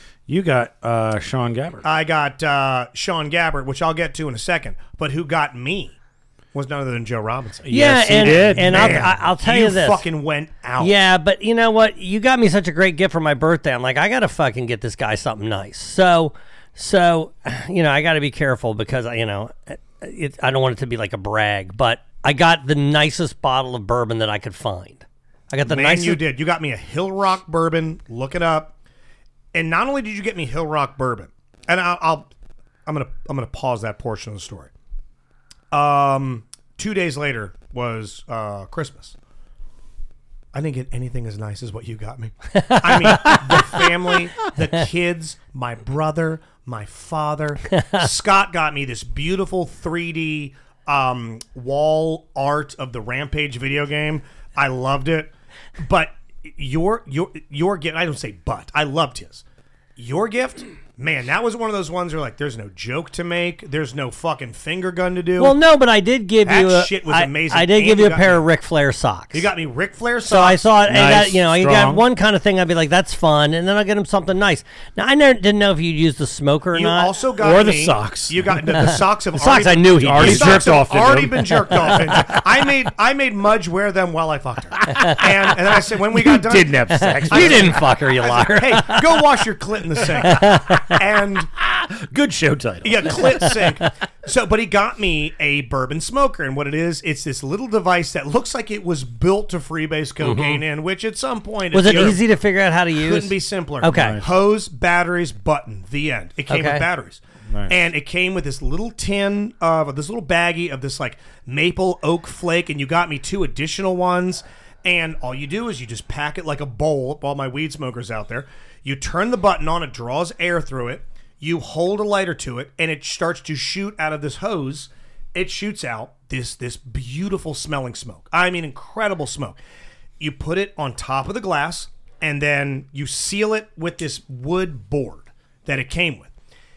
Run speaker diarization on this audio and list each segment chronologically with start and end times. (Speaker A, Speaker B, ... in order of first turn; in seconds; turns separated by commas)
Speaker A: 0.3-1.8, Speaker B: 1.8-6.0, Speaker B: 6.5-10.9, Speaker A: 7.6-9.1, Speaker C: 7.7-10.1, Speaker C: 10.8-26.2, Speaker B: 25.6-28.7, Speaker B: 29.5-32.3, Speaker B: 32.9-34.7, Speaker B: 35.7-39.1, Speaker B: 40.5-59.4, Speaker C: 42.5-43.7, Speaker C: 47.8-48.0, Speaker B: 60.0-65.6, Speaker C: 65.4-69.5, Speaker B: 66.4-68.4, Speaker B: 69.3-70.6, Speaker C: 70.2-77.1, Speaker A: 70.8-72.0, Speaker B: 76.7-91.5, Speaker A: 77.4-78.8, Speaker C: 79.3-80.7, Speaker A: 80.0-82.4, Speaker A: 86.1-87.8, Speaker C: 86.9-89.2, Speaker C: 90.2-90.9, Speaker A: 91.6-93.5, Speaker B: 92.8-102.3, Speaker C: 100.2-100.6, Speaker C: 101.7-104.2, Speaker B: 102.9-129.6, Speaker A: 103.9-104.3, Speaker C: 106.5-106.8, Speaker A: 107.5-107.8, Speaker B: 130.2-136.3